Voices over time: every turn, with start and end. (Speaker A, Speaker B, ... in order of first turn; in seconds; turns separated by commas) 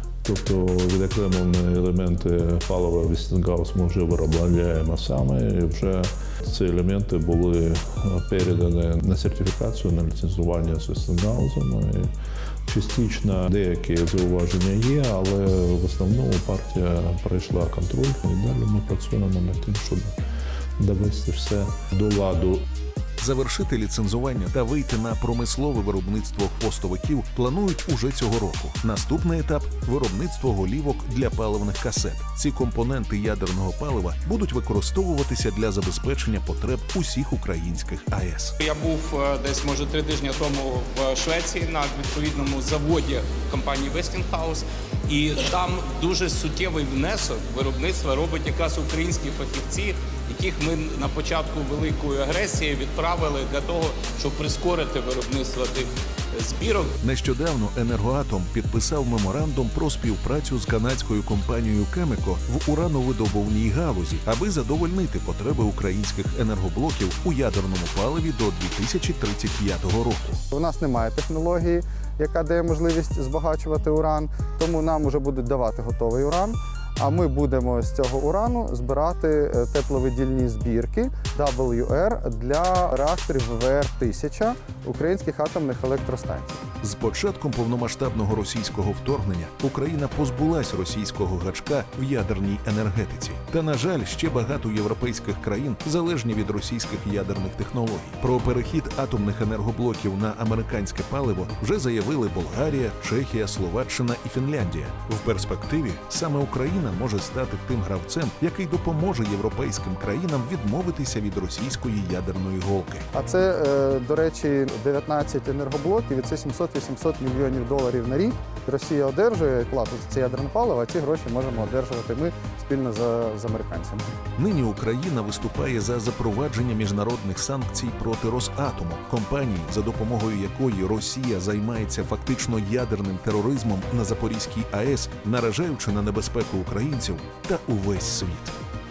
Speaker A: 0.2-12.1, Speaker A: 12.7-20.2, Speaker A: 20.8-22.7, Speaker B: 23.2-38.5, Speaker C: 38.6-57.0, Speaker B: 57.0-70.4, Speaker D: 70.5-86.6, Speaker B: 86.8-113.1, Speaker D: 113.1-124.1, Speaker B: 124.4-138.6